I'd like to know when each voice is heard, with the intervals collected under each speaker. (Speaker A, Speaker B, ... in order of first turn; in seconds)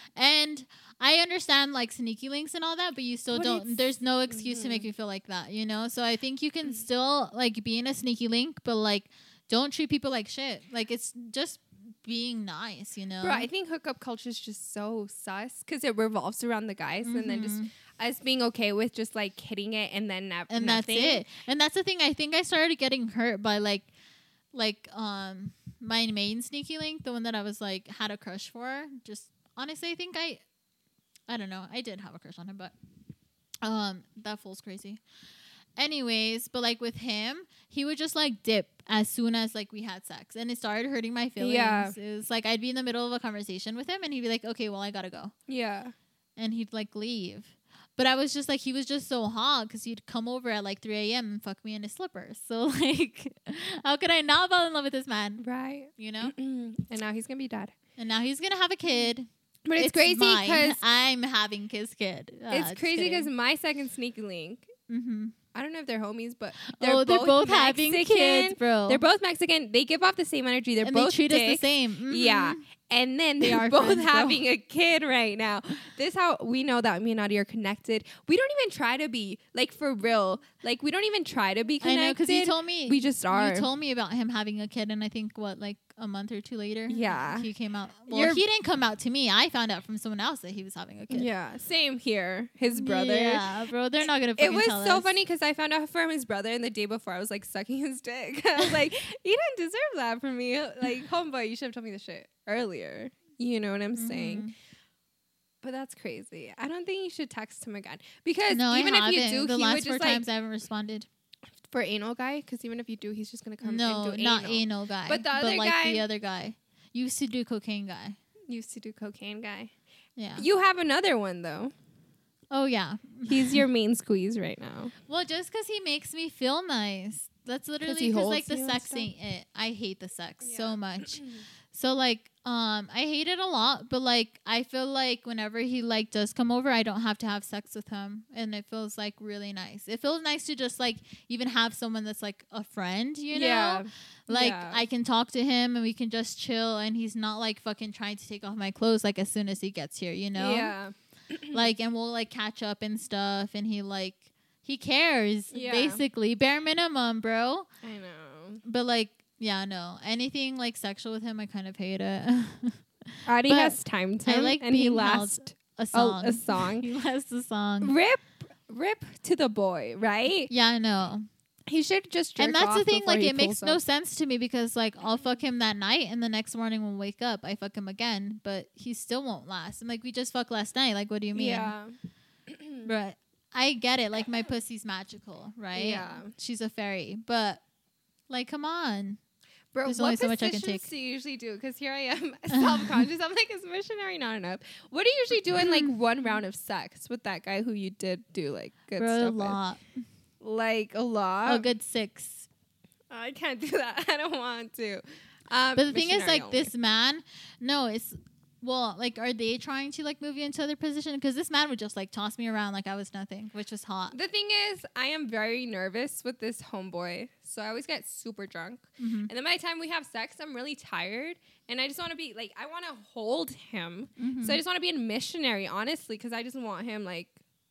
Speaker A: 0.2-13.5, 17.1-17.7, 20.5-23.9, 24.5-30.4, 31.3-32.7, 33.6-35.0, 35.8-45.3, 46.4-55.4, 56.0-56.3, 58.0-63.3, 64.9-65.3, 66.7-69.0, 70.8-72.6, 73.4-74.4, 81.8-91.3, 92.7-95.2, 104.0-104.5, 108.5-111.1, 113.6-118.2, 120.2-120.5, 122.5-123.6, 125.1-150.8, 151.5-157.7, 158.6-167.9, 170.5-171.3, 172.4-181.8, 182.8-187.6, 188.3-189.2, 189.8-190.9, 192.5-193.0, 195.6-196.0, 199.0-199.8, 201.5-202.5, 205.8-214.2, 219.0-219.3, 224.2-224.6
Speaker B: 3.3-4.9, 13.2-21.2, 41.4-42.0, 45.5-45.9, 55.4-57.7, 59.7-60.8, 62.5-64.7, 65.5-83.7, 86.9-87.5, 88.1-88.4, 91.1-93.5, 94.4-104.5, 105.6-110.2, 111.6-116.0, 118.5-119.7, 120.4-121.7, 123.3-124.9, 127.8-129.1, 130.4-131.4, 143.3-144.8, 150.4-151.7, 155.5-156.0, 157.8-158.6, 163.3-166.9, 167.8-170.5, 171.7-173.8, 181.3-181.9, 182.5-182.9, 185.8-186.3, 189.7-199.6, 200.4-201.7, 203.1-206.7, 214.1-227.4